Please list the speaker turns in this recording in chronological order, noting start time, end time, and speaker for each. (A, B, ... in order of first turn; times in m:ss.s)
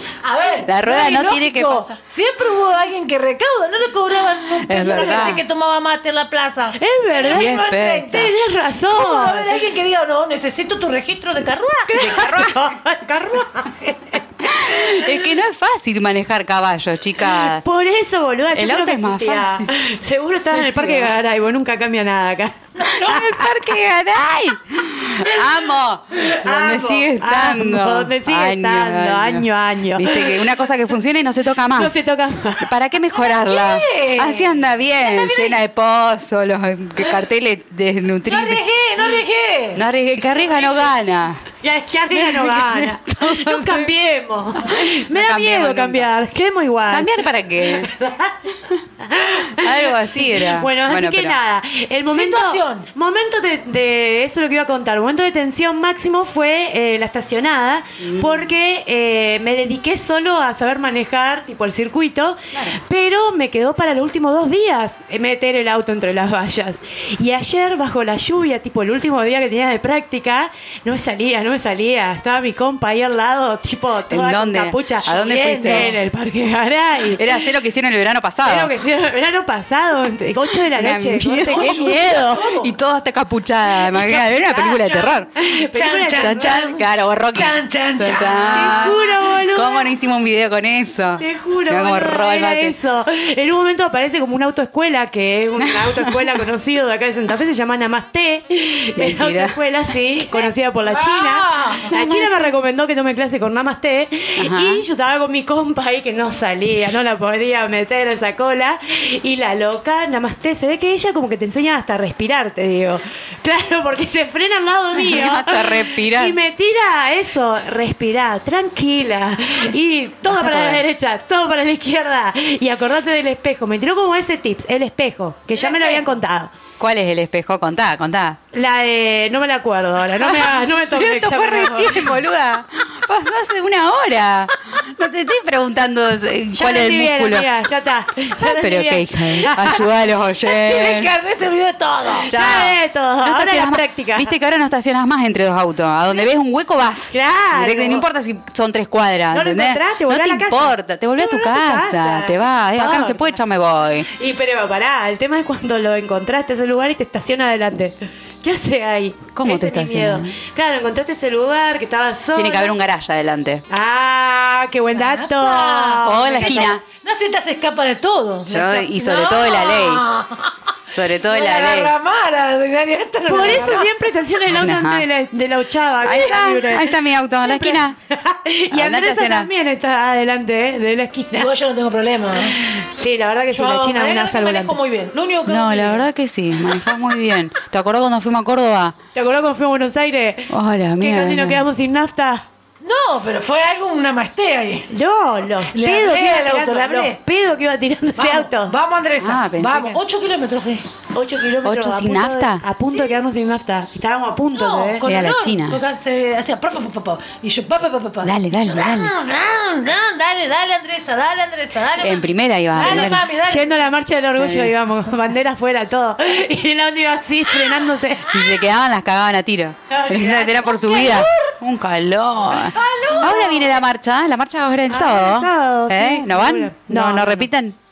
0:00.2-0:08.3 A
0:00.6-0:01.9 B
0:04.6-0:05.4 B
0:06.8-0:09.7 C
0:07.3-0:08.3 B
0:08.9-0:12.3 A
0:11.9-0:15.1 C
0:12.0-0:12.7 B
0:14.4-0:17.6 B
0:17.2-0:23.6 C
0:18.6-0:19.7 B
0:20.5-0:21.1 B
0:22.8-0:23.2 A
0:22.8-0:31.9 B
0:26.2-0:26.6 A
0:26.4-0:30.5 C
0:31.7-0:32.8 C
0:32.6-0:38.6 B
0:33.1-0:35.6 A
0:38.3-0:40.9 A
0:39.8-0:41.5 B
0:41.6-0:48.3 C
0:42.1-0:43.9 B
0:44.6-0:46.1 B
0:46.9-0:47.9 B
0:49.0-1:17.5 C
0:49.5-0:51.4 B
0:52.1-0:52.9 A
0:58.0-0:58.5 B
1:14.1-1:16.0 B
1:15.0-1:16.0 A
1:17.1-1:18.7 B
1:18.4-1:22.5 C
1:20.6-1:25.3 B
1:21.5-1:22.7 A
1:23.8-1:29.2 A
1:25.5-1:26.6 C
1:26.2-1:32.8 B
1:28.5-1:29.9 C
1:31.2-2:06.5 C
1:35.6-1:36.3 B
1:39.0-1:39.6 B
1:40.8-1:41.9 A
1:41.9-1:42.6 B
1:44.4-1:44.8 B
1:54.9-1:56.4 B
2:00.2-2:00.8 B
2:05.5-2:06.2 A
2:06.8-2:08.4 B
2:08.5-2:12.2 C
2:10.2-2:17.5 B
2:16.5-2:19.7 C
2:18.4-2:21.1 B
2:20.4-2:22.3 A
2:22.3-2:24.3 C
2:22.3-2:34.1 B
2:27.1-2:28.1 C
2:29.3-2:33.4 C
2:34.2-2:42.8 C
2:39.4-2:40.4 B
2:42.4-2:43.6 B
2:43.7-2:46.7 C
2:44.9-2:50.7 A
2:46.0-2:46.8 B
2:48.5-2:50.0 B
2:50.9-2:51.9 B
2:51.2-2:53.9 A
2:53.3-3:01.5 C
2:54.5-2:55.1 B
2:56.0-2:58.0 B
2:58.7-2:59.5 B
3:01.3-3:02.6 A
3:02.6-3:04.8 C
3:03.5-3:06.1 A
3:05.5-3:09.0 B
3:09.1-3:12.4 C
3:10.5-3:11.6 B
3:12.8-3:14.9 A
3:14.9-3:18.8 C
3:15.7-3:17.2 A
3:18.2-3:20.9 A
3:19.2-3:20.0 B
3:21.1-3:25.0 C
3:21.6-3:22.6 B
3:22.9-3:23.2 A
3:24.5-3:33.9 A
3:25.0-3:25.8 B
3:28.2-3:29.1 B
3:32.0-3:33.3 B
3:32.7-3:38.4 C
3:34.4-3:34.8 B
3:38.2-3:47.8 B
3:40.0-3:41.3 C
3:40.6-3:41.4 A
3:42.6-3:43.8 A
3:44.9-3:47.5 C